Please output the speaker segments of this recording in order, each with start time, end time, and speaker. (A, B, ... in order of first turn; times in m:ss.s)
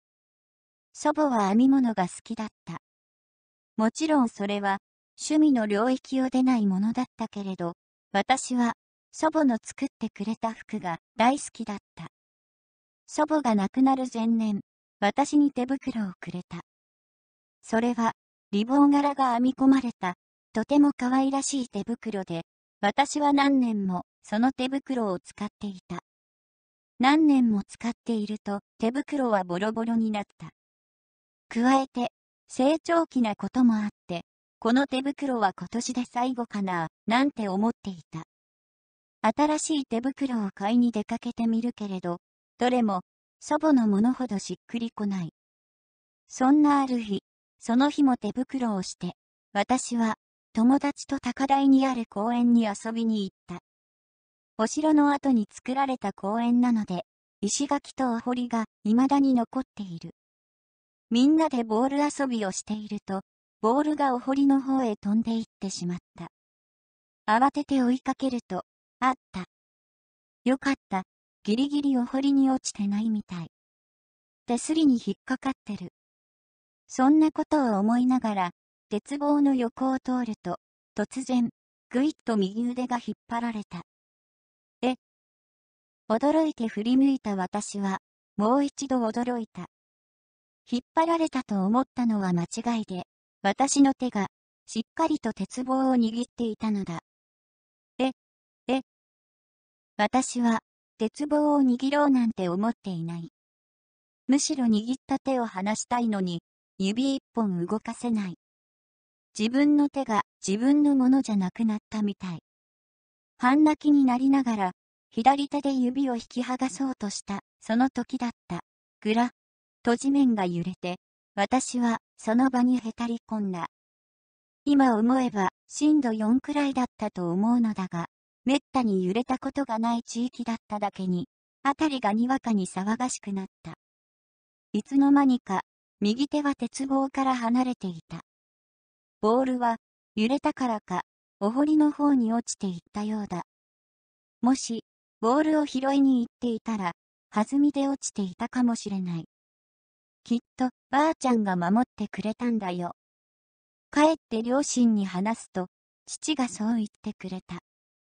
0:00.9-0:02.8 A
0:03.8-0:12.1 A
0:13.1-0:16.6 A
0:17.6-0:26.0 A
0:27.0-0:30.5 A
0:31.5-0:38.3 A
0:39.2-0:45.3 A
0:46.3-0:53.6 A
0:54.6-1:00.1 A
1:01.1-1:06.3 A
1:07.3-1:09.5 A
1:10.4-1:13.5 A
1:14.5-1:15.9 A
1:16.9-1:23.8 A
1:26.1-1:29.7 A
1:30.7-1:37.0 A
1:40.0-1:43.3 A
1:44.3-1:48.4 A
1:49.4-1:52.4 A
1:53.4-1:59.3 A
1:59.8-2:03.7 A
2:04.7-2:13.8 A
2:14.7-2:18.2 A
2:19.2-2:23.5 A
2:24.4-2:29.3 A
2:30.2-2:33.0 A
2:33.9-2:37.6 A